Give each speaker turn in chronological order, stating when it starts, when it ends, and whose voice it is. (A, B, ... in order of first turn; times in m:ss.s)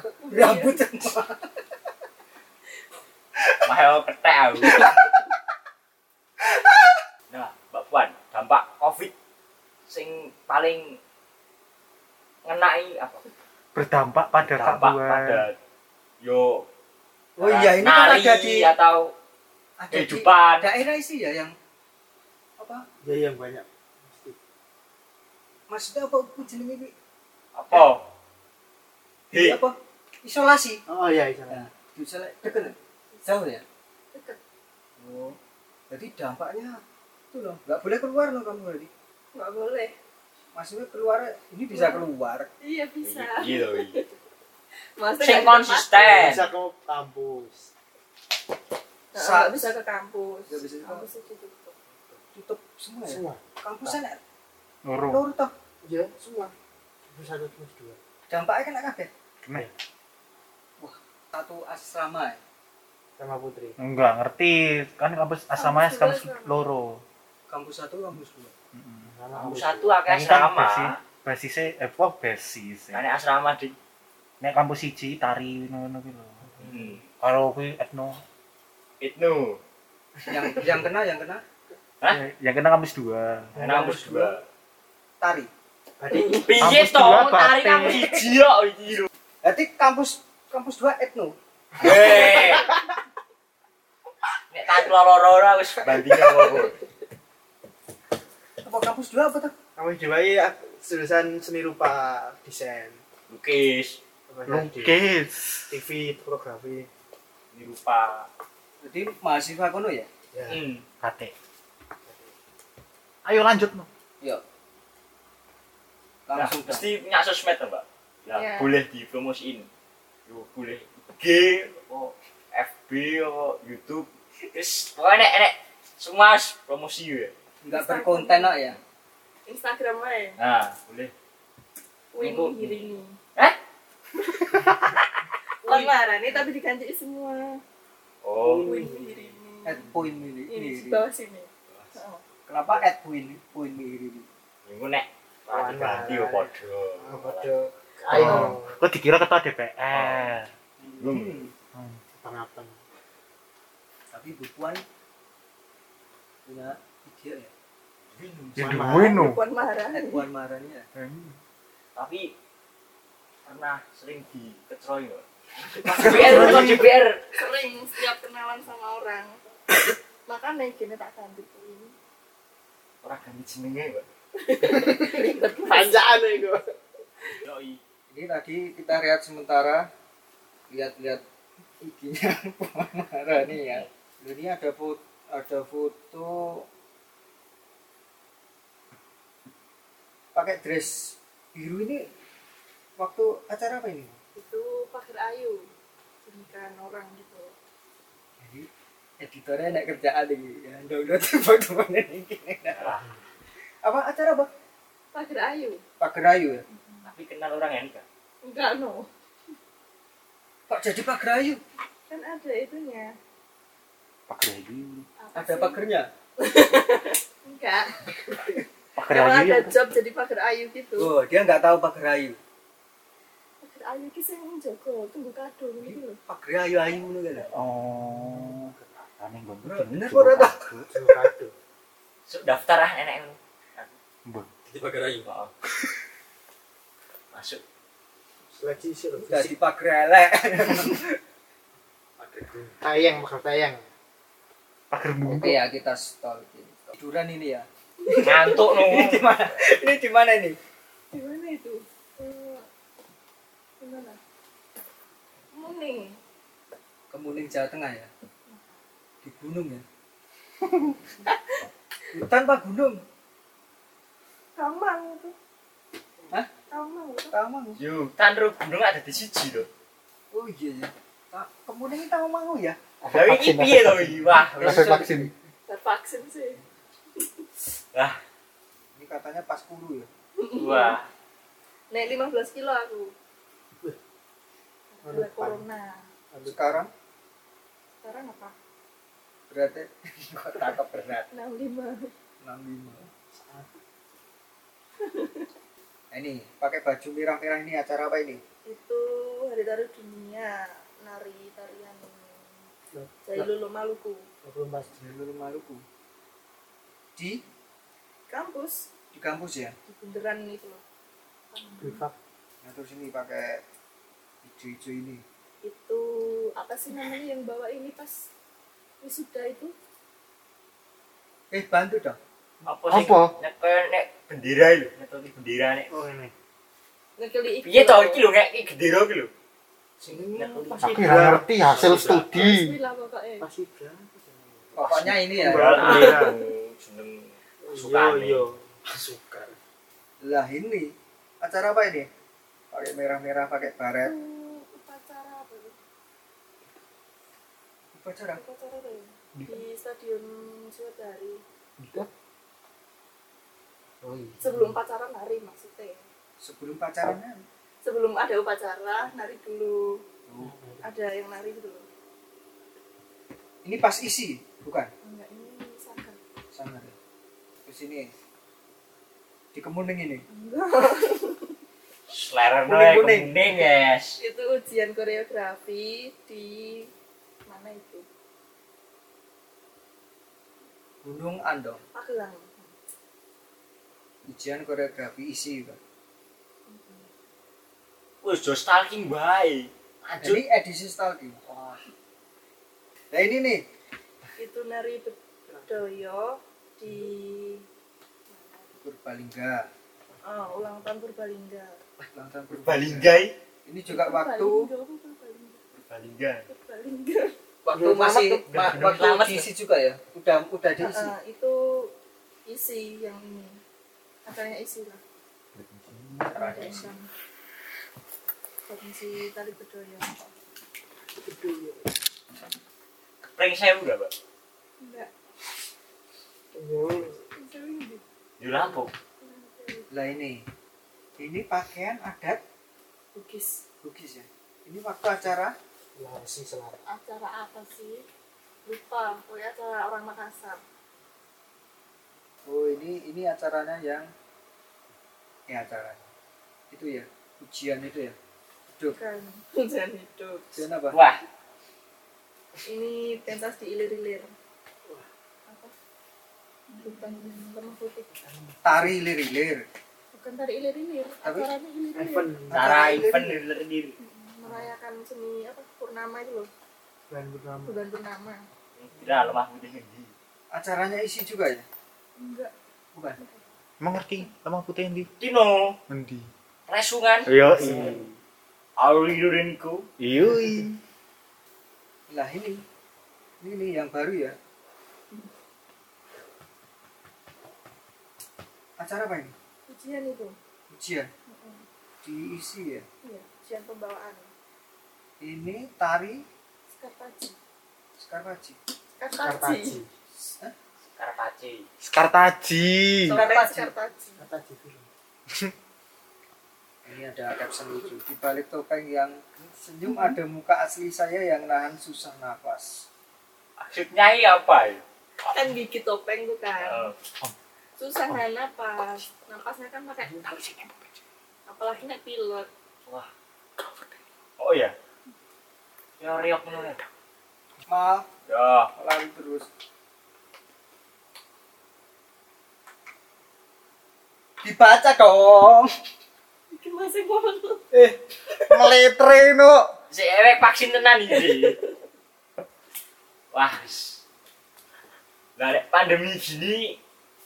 0:00.2-0:00.8 A
0:00.3-0:01.5 B
0:03.6-0:04.8 C
0:07.3-0:09.1 C
0:09.9-0:11.0 C
0:12.4-0:13.2 C
0:13.7-0:15.4 D
0:14.4-0:15.6 C
0:16.2-0:16.6 C
0:17.4-0:18.7 B
0:17.4-0:19.1 C
0:19.8-0:21.5 B
0:19.9-0:20.7 C
0:22.6-0:22.9 B
0:23.0-0:24.4 E
0:25.7-0:26.9 B
0:27.5-0:28.0 C
0:29.3-0:30.8 B
0:29.3-0:29.6 C
0:30.9-0:31.6 E
0:31.5-0:33.6 B
0:32.4-0:33.5 A
0:34.1-0:34.4 A
0:35.0-0:35.4 B
0:35.9-0:36.8 B
0:37.3-0:38.9 B
0:39.3-0:39.9 A
0:40.5-0:42.5 B
0:41.7-0:42.1 A
0:42.6-0:44.1 A
0:43.0-0:44.0 C
0:45.0-0:46.4 A
0:45.2-0:46.5 C
0:46.0-0:47.7 E
0:49.1-0:51.8 A
0:49.1-0:49.8 B
0:50.5-0:51.1 B
0:52.3-0:54.2 B
0:53.0-0:53.4 E
0:54.8-0:55.2 D
0:55.0-0:55.5 B
0:55.8-0:56.5 E
0:57.1-0:58.0 E
0:58.3-0:59.1 B
1:00.8-1:02.4 B
1:03.2-1:03.8 E
1:03.8-1:07.0 D
1:05.5-1:06.6 A
1:07.5-1:08.5 B
1:08.7-1:09.1 D
1:09.0-1:09.9 E
1:09.3-1:10.9 C
1:10.1-1:13.0 D
1:12.9-1:13.8 C
1:14.4-1:16.5 D
1:16.6-1:16.8 E
1:16.6-1:17.0 C
1:17.2-1:18.2 D
1:19.0-1:19.6 C
1:20.3-1:21.4 B
1:22.1-1:23.6 D
1:23.5-1:24.4 C
1:23.6-1:24.4 E
1:25.2-1:25.5 B
1:26.0-1:26.4 E
1:26.1-1:29.1 C
1:26.6-1:28.1 D
1:29.4-1:31.4 B
1:31.8-1:32.7 C
1:31.8-1:32.6 E
1:34.5-1:36.8 C
1:38.6-1:39.5 B
1:39.8-1:43.0 E
1:43.3-1:44.0 C
1:44.3-1:45.0 E
1:44.4-1:45.7 D
1:45.7-1:46.9 E
1:47.5-1:48.3 C
1:48.8-1:50.1 B
1:50.3-1:50.6 E
1:50.5-1:50.8 C
1:51.0-1:51.3 D
1:52.0-1:52.3 E
1:53.2-1:53.9 D
1:56.3-1:56.8 B
1:56.3-1:59.7 C
1:58.3-1:58.7 A
2:00.3-2:07.3 C
2:07.6-2:08.8 B
2:07.7-2:08.7 A
2:09.5-2:10.4 A
2:10.4-2:11.1 C
2:12.1-2:13.2 A
2:12.2-2:12.8 C
2:14.2-2:14.7 A
2:14.5-2:14.9 C
2:15.6-2:17.6 A
2:18.2-2:18.7 C
2:18.4-2:19.3 E
2:18.6-2:19.9 A
2:19.6-2:21.1 B
2:20.5-2:22.2 A
2:21.7-2:22.0 C
2:22.4-2:24.3 B
2:24.6-2:27.6 C
2:25.5-2:28.8 E
2:28.1-2:30.5 D
2:28.1-2:28.6 A
2:29.9-2:30.3 C
2:30.8-2:31.5 B
2:31.0-2:31.4 C
2:31.7-2:32.0 D
2:32.2-2:32.7 E
2:34.1-2:34.8 B
2:36.4-2:37.5 B
2:38.1-2:38.8 C
2:38.6-2:39.2 E
2:38.6-2:39.4 D
2:38.9-2:40.3 A
2:39.7-2:40.9 B
2:41.0-2:41.3 D
2:41.9-2:42.3 C
2:43.4-2:47.2 C
2:46.0-2:46.6 E
2:46.0-2:46.9 D
2:47.4-2:49.4 A
2:50.3-2:51.9 A
2:53.0-2:54.0 C
2:54.4-2:56.5 A
2:54.7-2:56.7 E
2:57.4-2:57.8 C
2:58.1-2:59.9 B
3:00.7-3:01.2 B
3:01.8-3:06.6 B
3:03.6-3:03.9 C
3:10.3-3:12.0 B
3:13.0-3:14.2 B
3:14.4-3:15.7 A
3:16.2-3:17.5 A
3:18.4-3:18.7 B
3:19.2-3:22.9 B
3:22.7-3:23.1 C
3:23.8-3:24.5 B
3:25.1-3:25.8 A
3:26.0-3:26.6 B
3:27.0-3:28.0 C
3:28.4-3:29.1 A
3:30.7-3:31.6 B
3:32.1-3:33.1 A
3:34.3-3:35.1 D
3:35.2-3:35.9 A
3:35.3-3:36.1 B
3:36.4-3:38.1 A
3:39.0-3:39.7 D
3:39.1-3:41.1 A
3:41.0-3:42.4 B
3:43.6-3:46.2 A
3:45.8-3:47.5 B
3:47.5-3:50.6 D
3:49.6-3:50.9 B
3:50.9-3:51.5 E
3:52.3-3:53.9 C
3:54.2-3:54.6 D
3:54.7-3:55.5 C
3:57.3-3:57.6 C
3:58.5-3:59.5 E
3:59.2-4:01.2 B
4:02.2-4:03.9 E
4:04.9-4:05.6 D
4:05.2-4:07.7 B
4:08.0-4:08.8 A
4:08.1-4:09.2 C
4:08.6-4:10.6 B
4:11.1-4:12.7 A
4:13.8-4:14.2 A
4:15.5-4:16.2 A
4:17.1-4:18.1 B
4:19.2-4:19.8 B
4:21.2-4:21.6 A
4:22.1-4:23.0 B
4:24.6-4:25.4 A
4:26.7-4:27.4 A
4:27.3-4:27.8 B
4:27.8-4:29.7 C
4:30.3-4:32.8 B
4:33.0-4:35.3 D
4:33.1-4:33.9 E
4:33.1-4:34.9 C
4:34.5-4:35.3 B
4:35.7-4:36.6 A
4:37.2-4:37.5 A
4:37.9-4:38.2 C
4:38.9-4:40.1 B
4:40.4-4:41.0 A
4:40.6-4:41.1 C
4:41.9-4:43.1 A
4:44.9-4:46.1 A
4:45.0-4:45.6 E
4:46.3-4:46.8 E
4:46.4-4:46.9 B
4:48.0-4:48.5 A
4:49.5-4:51.3 B
4:51.3-4:52.1 A
4:52.4-4:53.1 B
4:53.3-4:53.8 E
4:55.0-4:55.5 A
4:56.1-4:58.4 B
4:58.6-5:02.4 A
5:02.9-5:03.5 E
5:03.2-5:04.3 A
5:04.4-5:05.0 E
5:05.0-5:05.8 B
5:07.2-5:07.4 B
5:08.3-5:08.8 A
5:09.1-5:09.8 B
5:09.9-5:10.8 A
5:11.5-5:12.0 A
5:11.8-5:12.1 E
5:12.6-5:13.6 B
5:14.4-5:15.2 B
5:15.6-5:18.2 A
5:19.0-5:19.7 A
5:21.5-5:22.2 B
5:22.6-5:25.9 C
5:22.9-5:23.3 E
5:25.9-5:26.3 E
5:27.2-5:28.3 A
5:27.6-5:29.3 C
5:30.0-5:30.7 B
5:30.2-5:32.5 C
5:30.8-5:32.7 E
5:30.8-5:31.6 D
5:32.2-5:33.5 A
5:33.4-5:36.4 E
5:34.7-5:36.4 B
5:35.4-5:38.4 C
5:35.8-5:36.4 A
5:37.6-5:39.6 E
5:40.2-5:42.1 B
5:42.7-5:44.1 B
5:44.0-5:45.8 A
5:47.9-5:48.4 B
5:48.2-5:51.4 A
5:54.0-5:54.8 E
5:54.4-5:56.0 A
5:56.4-5:57.4 B
5:57.8-6:00.0 A
6:00.3-6:00.5 B
6:00.4-6:00.8 E
6:00.8-6:01.8 A
6:03.6-6:04.9 B
6:05.0-6:06.2 A
6:06.5-6:06.9 B
6:07.6-6:08.1 B
6:09.5-6:10.2 B
6:10.3-6:11.5 A
6:12.1-6:14.2 C
6:12.6-6:13.6 B
6:14.2-6:16.9 A
6:17.4-6:18.0 A
6:21.0-6:21.8 B
6:21.9-6:22.7 A
6:24.3-6:25.8 B
6:26.7-6:27.1 A
6:28.2-6:30.4 C
6:30.2-6:31.4 B
6:33.1-6:33.6 B
6:34.4-6:37.7 A
6:38.3-6:38.7 A
6:38.8-6:39.6 B
6:40.2-6:41.7 A
6:42.0-6:43.1 B
6:42.5-6:43.3 C
6:43.6-6:44.7 B
6:43.8-6:45.6 A
6:45.7-6:46.4 C
6:46.5-6:47.3 A
6:47.6-6:51.1 B
6:47.7-6:48.4 E
6:48.5-6:49.5 C
6:50.8-6:51.9 A
6:52.4-6:53.6 A
6:54.2-6:55.0 A
6:55.6-6:56.2 D
6:56.2-6:56.9 B
6:56.3-6:57.0 A
6:58.6-7:00.2 A
7:01.2-7:01.9 E
7:03.3-7:04.1 C
7:04.8-7:05.1 A
7:06.5-7:07.2 E
7:07.2-7:08.0 A
7:08.4-7:08.9 C
7:09.2-7:09.9 A
7:09.9-7:10.4 B
7:11.2-7:12.4 B
7:13.1-7:13.6 A
7:13.8-7:15.5 B
7:16.0-7:16.8 E
7:16.9-7:18.0 A
7:18.6-7:20.6 A
7:22.4-7:24.1 B
7:25.5-7:26.0 B
7:26.7-7:28.2 B
7:28.7-7:29.0 B
7:28.9-7:30.7 A
7:30.5-7:31.0 B
7:30.9-7:31.2 C
7:32.6-7:34.3 A
7:35.5-7:35.7 A
7:36.7-7:38.1 A
7:38.2-7:38.9 E
7:38.6-7:39.6 B
7:40.1-7:42.4 A
7:41.2-7:41.5 B
7:41.9-7:43.0 E
7:42.4-7:43.4 B
7:42.5-7:44.0 C
7:44.0-7:46.5 A
7:44.4-7:44.7 E
7:47.1-7:47.8 E
7:47.6-7:48.5 A
7:48.8-7:50.1 C
7:50.5-7:51.6 B
7:52.2-7:52.5 A
7:53.2-7:53.4 A
7:53.8-7:55.1 D
7:55.2-7:55.8 C
7:55.9-7:56.3 D
7:56.7-7:57.3 C
7:57.2-7:58.2 D
7:57.6-7:58.0 E
7:58.8-7:59.9 C
8:00.0-8:00.8 D
8:02.1-8:02.6 B
8:03.4-8:04.4 B
8:08.8-8:09.3 B
8:09.7-8:10.4 A
8:10.7-8:11.1 B
8:11.3-8:11.6 A
8:12.0-8:12.8 B
8:13.0-8:14.3 A
8:15.2-8:16.2 B
8:16.8-8:17.4 A
8:18.0-8:18.6 B
8:19.0-8:19.8 A
8:19.2-8:19.9 E
8:20.9-8:21.7 C
8:21.8-8:23.2 D
8:23.1-8:24.2 A
8:23.1-8:23.7 B
8:24.2-8:24.9 E
8:26.8-8:32.8 B
8:33.7-8:34.8 C
8:35.2-8:36.9 A
8:36.6-8:36.9 C
8:37.8-8:40.4 A
8:40.2-8:40.7 D
8:41.5-8:42.5 A
8:44.4-8:44.7 C
8:46.0-8:46.8 C
8:47.7-8:48.1 B
8:48.3-8:48.7 C
8:48.8-8:49.5 B
8:54.4-8:55.7 B
8:56.5-8:57.6 A
8:57.7-8:58.0 B
8:58.5-8:59.6 D
8:59.9-9:01.6 C
9:01.1-9:01.7 A
9:03.3-9:04.0 C
9:05.4-9:06.8 C